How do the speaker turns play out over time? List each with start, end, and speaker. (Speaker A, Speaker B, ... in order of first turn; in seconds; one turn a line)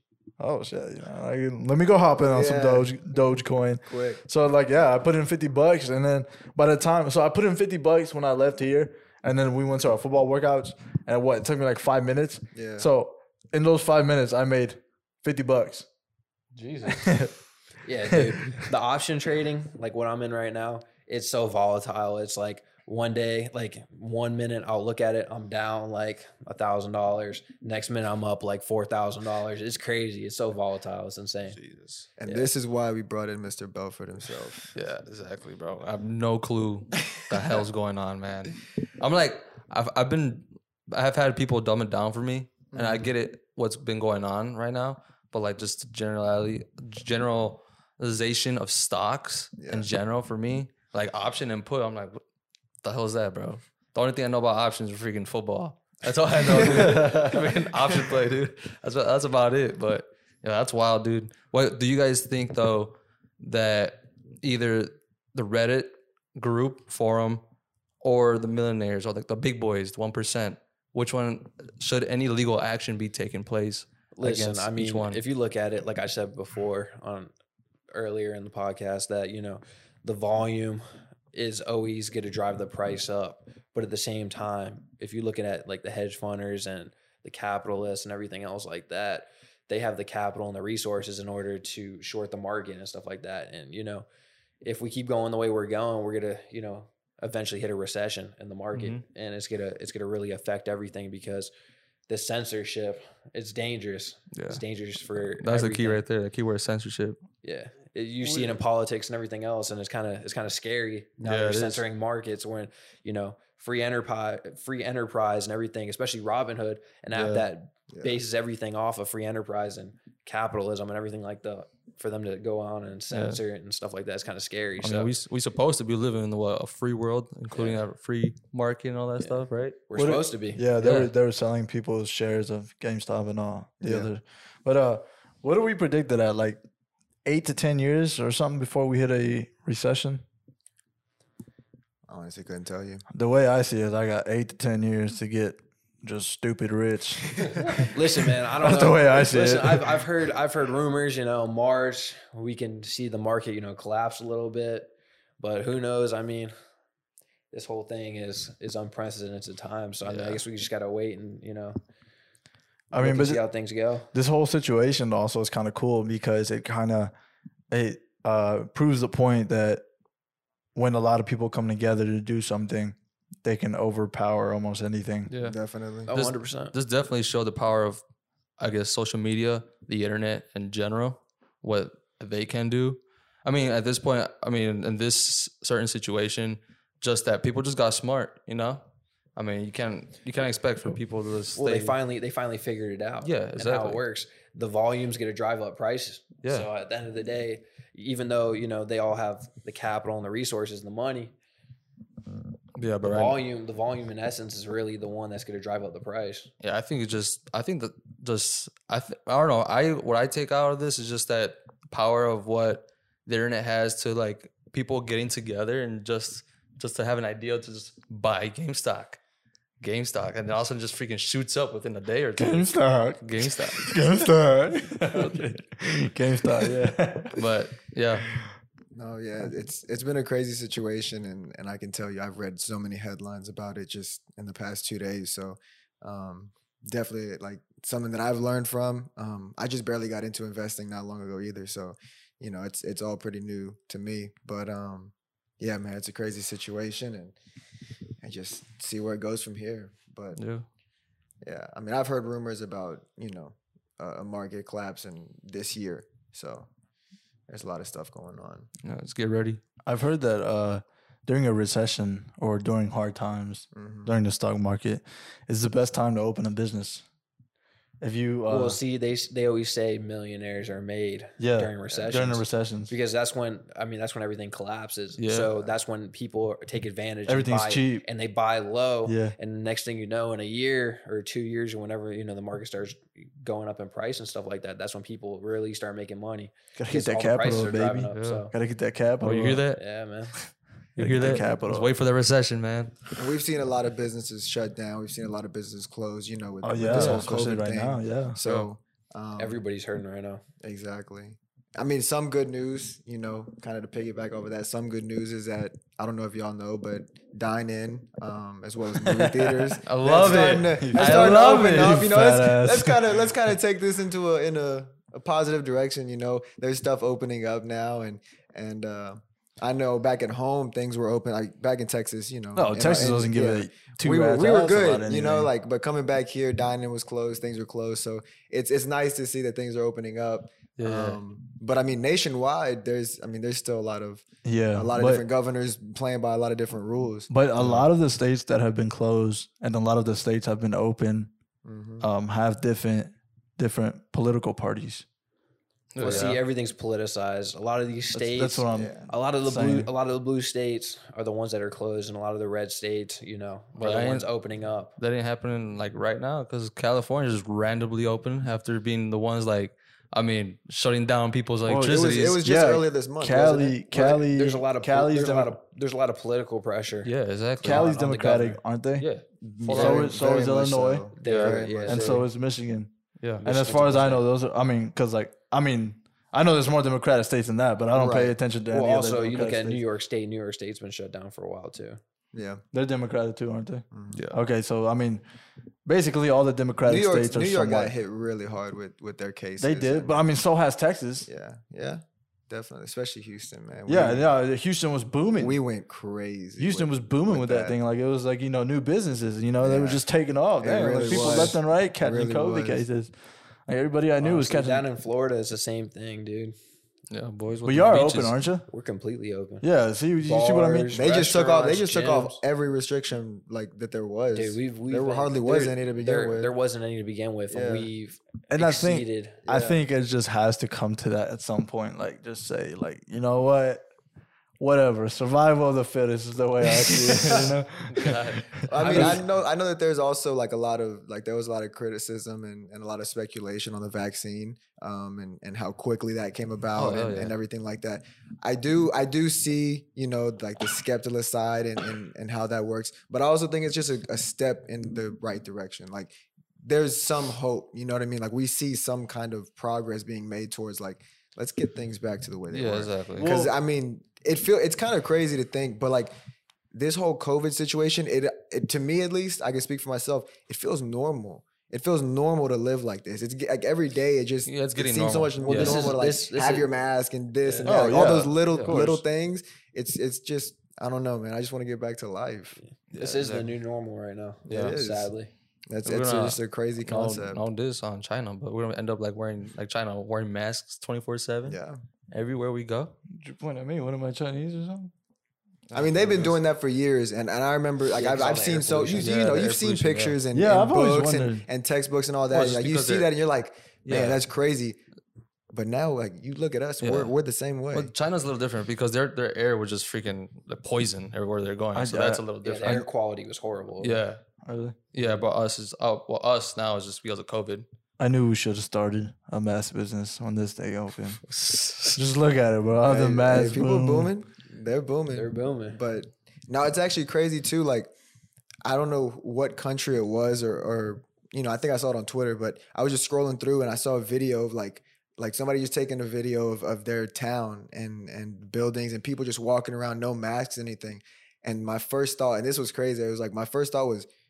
Speaker A: 0.4-15.9
Speaker B: 2.3-3.0
Speaker B: 3.9-4.2
Speaker B: 12.5-12.9
Speaker C: 16.6-16.9
Speaker A: 16.9-17.3
Speaker D: 17.8-31.6
Speaker A: 18.1-18.6
Speaker C: 31.5-32.1
Speaker B: 32.2-34.7
Speaker D: 32.3-32.5
Speaker C: 34.8-52.2
Speaker B: 42.7-43.1
Speaker B: 49.6-49.9
Speaker C: 52.8-67.4
Speaker A: 56.6-57.4
Speaker C: 68.0-75.2
Speaker D: 74.2-77.3
Speaker D: 77.9-94.1
Speaker D: 94.6-101.5
Speaker C: 98.7-99.0
Speaker D: 102.1-106.0
Speaker C: 104.3-104.6
Speaker C: 105.2-107.2
Speaker D: 107.4-125.1
Speaker C: 111.2-111.8
Speaker A: 117.1-117.4
Speaker B: 117.9-118.2
Speaker C: 123.1-123.4
Speaker C: 124.8-129.8
Speaker D: 127.5-127.8
Speaker D: 129.2-130.7
Speaker A: 130.0-136.6
Speaker C: 130.8-131.1
Speaker B: 133.8-134.1
Speaker A: 137.2-140.2
Speaker B: 142.1-143.0
Speaker A: 143.1-150.0
Speaker D: 147.7-156.5
Speaker D: 157.5-161.8
Speaker C: 160.1-160.4
Speaker A: 162.9-163.4
Speaker D: 162.9-164.1
Speaker A: 164.1-167.1
Speaker A: 167.7-169.8
Speaker A: 170.8-175.3
Speaker C: 175.3-178.0
Speaker B: 175.4-176.1
Speaker D: 176.1-176.8
Speaker C: 178.6-188.8
Speaker C: 189.4-192.0
Speaker D: 191.6-201.3
Speaker C: 193.2-194.0
Speaker C: 202.8-203.4
Speaker D: 203.0-206.5
Speaker C: 206.6-219.2
Speaker C: 219.8-223.9
Speaker A: 222.4-227.4
Speaker C: 227.3-228.4
Speaker B: 228.9-247.4
Speaker B: 248.2-250.4
Speaker C: 250.4-250.7
Speaker B: 251.4-256.7
Speaker B: 257.5-258.7
Speaker C: 258.8-259.6
Speaker A: 259.9-267.1
Speaker B: 263.7-264.1
Speaker A: 268.0-268.8
Speaker D: 268.5-288.5
Speaker A: 271.4-272.9
Speaker C: 275.2-275.5
Speaker A: 277.3-278.1
Speaker A: 279.1-279.4
Speaker A: 286.8-289.6
Speaker C: 288.1-288.4
Speaker C: 289.2-289.8
Speaker D: 289.8-290.4
Speaker C: 291.0-293.0
Speaker A: 291.0-291.9
Speaker B: 293.2-299.6
Speaker A: 296.6-298.4
Speaker C: 296.9-297.3
Speaker C: 298.4-298.7
Speaker D: 299.4-300.4
Speaker B: 300.6-337.3
Speaker A: 309.0-313.2
Speaker C: 309.8-312.1
Speaker A: 322.6-325.5
Speaker C: 330.8-331.2
Speaker A: 334.4-335.2
Speaker A: 337.3-341.3
Speaker C: 337.6-337.9
Speaker B: 341.6-342.1
Speaker A: 342.0-345.1
Speaker C: 345.9-346.4
Speaker D: 346.0-354.9
Speaker A: 348.1-349.9
Speaker B: 348.7-349.1
Speaker C: 353.8-354.3
Speaker C: 355.0-362.4
Speaker A: 361.7-365.6
Speaker B: 361.8-364.0
Speaker D: 363.9-368.6
Speaker C: 367.1-367.9
Speaker A: 367.6-369.1
Speaker C: 369.0-370.1
Speaker B: 369.4-372.2
Speaker A: 369.7-371.1
Speaker D: 371.2-372.3
Speaker C: 371.2-371.6
Speaker A: 371.9-372.9
Speaker C: 373.2-373.5
Speaker D: 373.4-374.2
Speaker A: 373.4-379.8
Speaker B: 377.9-378.4
Speaker D: 378.7-382.0
Speaker B: 382.3-382.6
Speaker A: 382.7-385.2
Speaker B: 383.9-384.2
Speaker C: 384.1-384.4
Speaker A: 385.9-387.9
Speaker B: 386.9-390.2
Speaker A: 389.6-391.3
Speaker B: 391.3-394.3
Speaker A: 393.9-395.6
Speaker B: 395.4-397.8
Speaker A: 396.6-403.1
Speaker B: 399.6-400.0
Speaker B: 400.6-402.8
Speaker D: 401.1-401.3
Speaker A: 403.7-404.9
Speaker D: 404.2-406.6
Speaker C: 407.1-408.4
Speaker A: 407.6-408.6
Speaker D: 408.7-409.7
Speaker A: 409.6-411.0
Speaker D: 410.2-412.4
Speaker B: 410.9-416.5
Speaker D: 414.3-419.4
Speaker B: 417.5-417.9
Speaker A: 418.5-423.8
Speaker B: 419.5-419.8
Speaker A: 424.6-429.2
Speaker C: 426.9-429.2
Speaker B: 427.1-427.5
Speaker B: 428.7-456.1
Speaker C: 436.8-437.4
Speaker C: 452.5-453.4
Speaker A: 453.2-453.5
Speaker B: 456.7-472.6
Speaker C: 464.5-466.0
Speaker D: 465.4-466.7
Speaker D: 467.4-467.9
Speaker A: 467.6-469.0
Speaker C: 468.5-468.8
Speaker D: 472.6-475.3
Speaker C: 472.9-473.5
Speaker C: 474.5-474.8
Speaker B: 474.5-475.1
Speaker B: 475.7-477.4
Speaker C: 475.9-481.6
Speaker B: 481.4-481.8
Speaker C: 482.1-483.0
Speaker A: 483.1-484.9
Speaker C: 485.7-486.4
Speaker B: 485.7-494.8
Speaker D: 487.9-489.1
Speaker C: 489.0-490.2
Speaker A: 490.3-491.5
Speaker C: 492.3-493.1
Speaker C: 493.9-494.2
Speaker B: 495.5-497.9
Speaker C: 496.8-497.1
Speaker C: 497.7-502.9
Speaker A: 501.8-502.8
Speaker D: 502.4-504.0
Speaker C: 503.8-504.2
Speaker A: 504.4-504.8
Speaker C: 504.9-507.7
Speaker A: 508.0-511.2
Speaker C: 511.3-512.0
Speaker A: 511.9-514.1
Speaker B: 512.9-517.9
Speaker D: 515.1-515.8
Speaker B: 518.6-534.1